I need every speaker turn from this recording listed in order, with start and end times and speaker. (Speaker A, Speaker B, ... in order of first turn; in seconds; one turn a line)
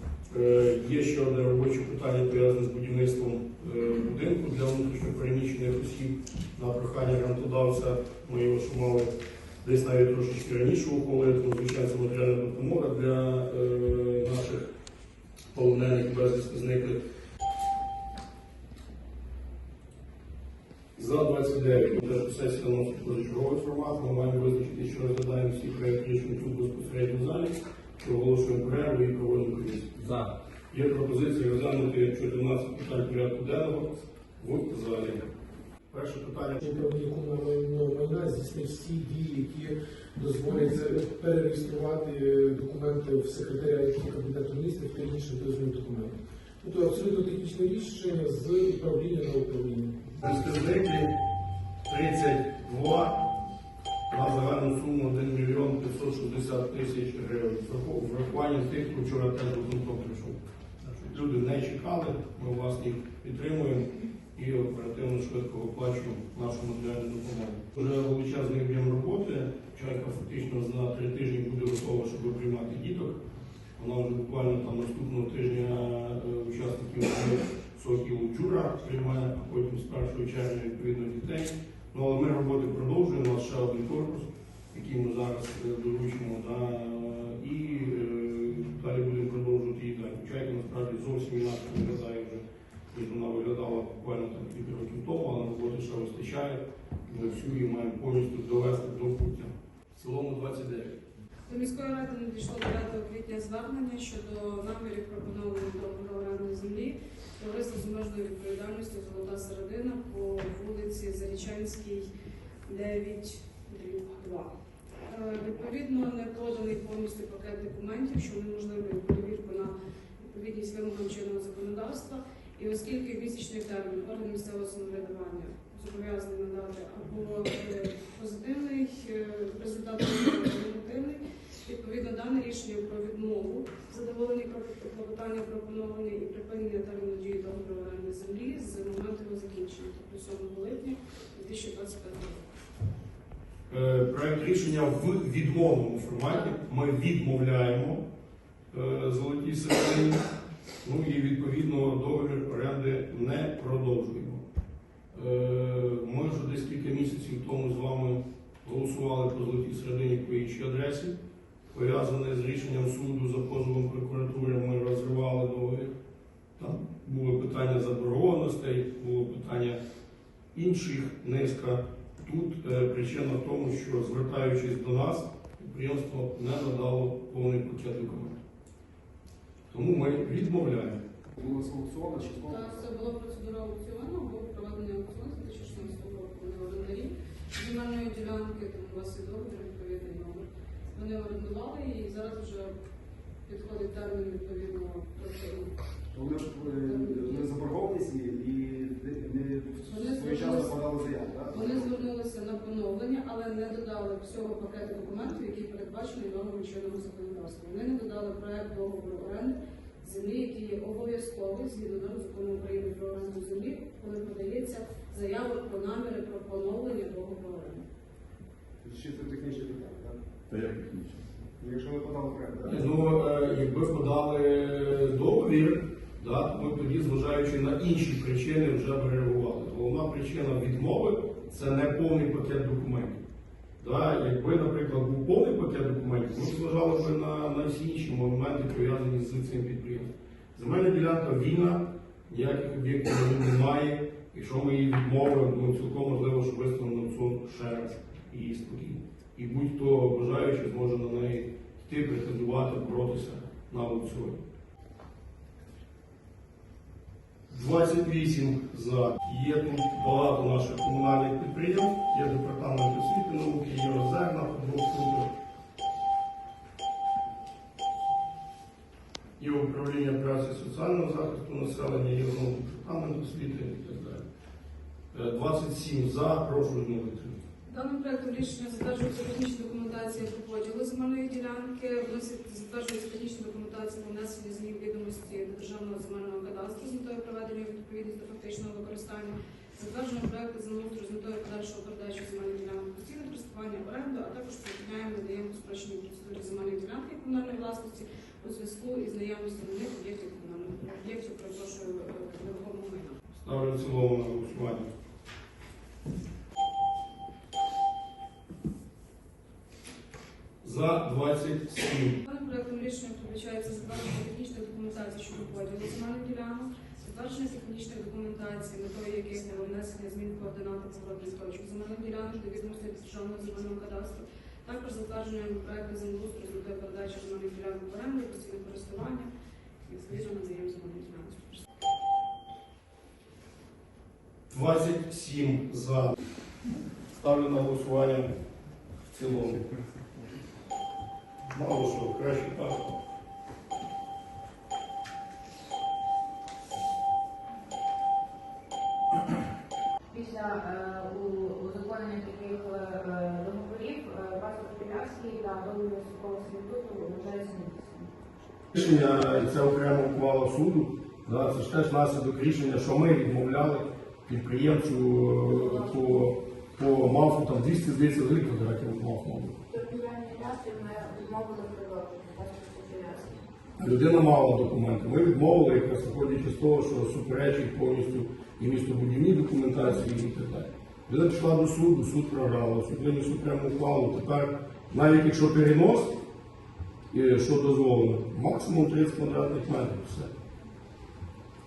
Speaker A: 0.3-9.1
Speaker A: 9.6-14.7
Speaker A: 15.5-17.0
Speaker A: 20.9-35.3
Speaker A: 35.9-36.8
Speaker B: 36.6-50.2
Speaker A: 50.2-51.1
Speaker A: 51.9-53.3
Speaker A: 54.1-73.2
Speaker A: 73.8-101.0
Speaker C: 101.5-112.1
Speaker C: 112.7-114.5
Speaker C: 115.1-142.4
Speaker A: 143.7-148.0
Speaker A: 148.7-150.2
Speaker A: 150.8-154.4
Speaker A: 155.1-161.2
Speaker A: 161.7-165.9
Speaker A: 166.6-169.8
Speaker A: 170.5-178.4
Speaker A: 179.7-181.0
Speaker D: 181.4-182.8
Speaker C: 182.5-192.7
Speaker C: 193.5-195.7
Speaker D: 196.1-202.0
Speaker C: 196.8-197.5
Speaker C: 199.8-200.7
Speaker C: 201.5-217.8
Speaker D: 218.8-220.6
Speaker D: 221.6-222.8
Speaker A: 222.7-233.2
Speaker A: 233.8-254.4
Speaker A: 257.5-265.3
Speaker A: 269.4-274.2
Speaker A: 275.1-277.4
Speaker C: 277.7-303.2
Speaker A: 303.4-304.9
Speaker A: 310.6-312.2
Speaker C: 312.2-329.3
Speaker C: 329.8-331.6
Speaker A: 334.5-336.1
Speaker A: 337.1-338.4
Speaker A: 339.1-339.7
Speaker A: 341.5-342.9
Speaker E: 350.1-358.1
Speaker A: 358.7-369.6
Speaker E: 369.7-373.4
Speaker A: 373.8-386.1
Speaker A: 387.1-390.3